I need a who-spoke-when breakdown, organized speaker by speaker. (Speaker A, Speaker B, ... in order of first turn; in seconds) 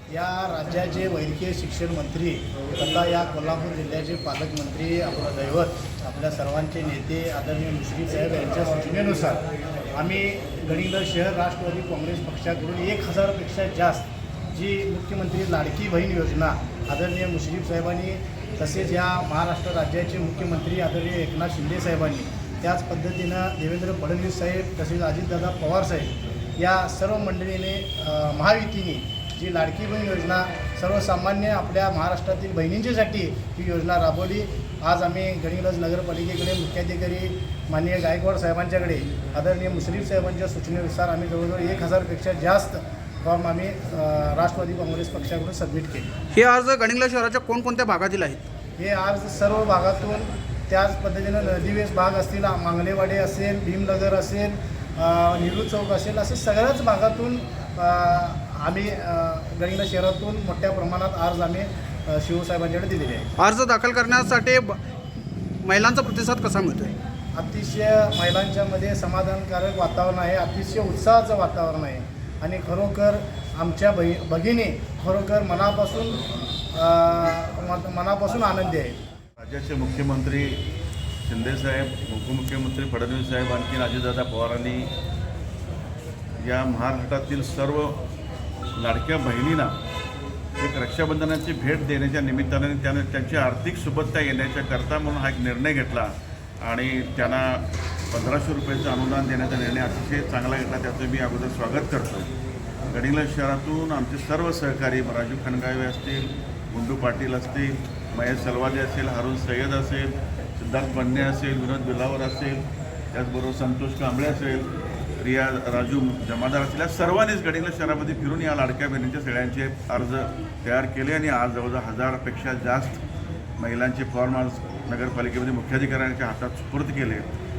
Speaker A: 0.1-9.4, 9.9-46.1, 48.8-63.3, 67.3-76.2, 76.8-79.0
Speaker B: 46.3-48.5, 63.4-64.8, 65.6-67.0
Speaker C: 79.4-80.6, 81.2-84.9, 86.4-88.0, 88.8-89.8, 90.6-102.3, 102.9-123.0, 123.6-127.3